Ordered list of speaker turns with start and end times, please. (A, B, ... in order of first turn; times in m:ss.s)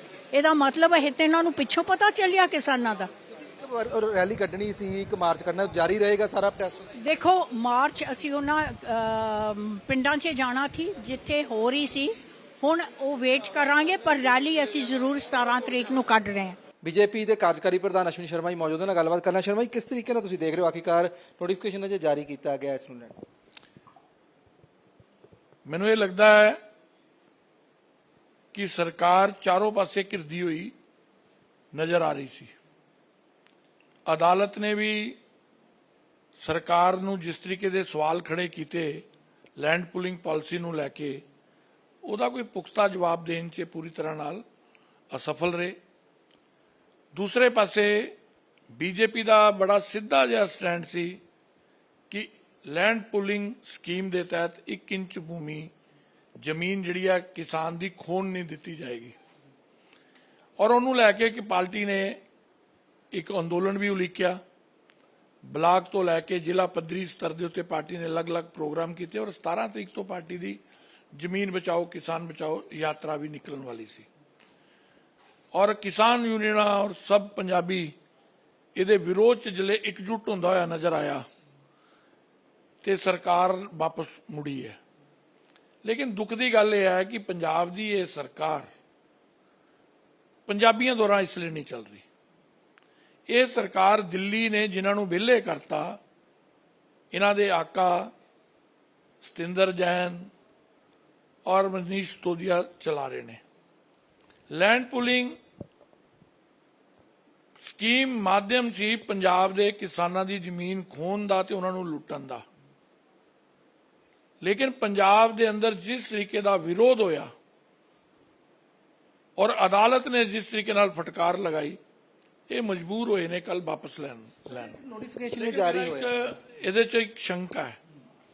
0:00.3-0:03.1 A
0:03.3-0:06.9 B
0:07.0-0:16.6 A
0:16.8-0:23.2 B
0:25.6-0:26.6 C
0:28.5-0:30.7 C
0:31.7-0:32.5 C
0:34.0-0:35.2 C
0:36.4-0:39.0 C
0:39.6-0:41.2 C
0:42.0-0:44.4 C
0:45.1-0:45.8 C
0:47.1-0:48.1 C
0:48.7-0:51.2 C
0:52.1-0:55.7 C
0:56.4-0:59.1 C
1:00.6-1:02.2 C
1:03.1-1:04.4 C
1:05.4-1:10.6 C
1:11.1-1:14.1 C
1:15.5-1:17.9 C
1:18.7-1:21.2 C
1:22.8-1:24.8 C
1:25.8-1:28.7 C
1:30.5-1:32.0 C
1:33.3-1:36.0 C
1:37.1-1:38.1 C
1:39.2-1:40.3 C
1:41.4-1:43.4 C
1:44.5-1:45.4 C
1:47.6-1:52.4 C
1:54.4-1:57.3 C
1:59.4-2:01.8 C
2:02.5-2:04.7 C
2:04.5-2:06.1 B
2:05.4-2:07.8 C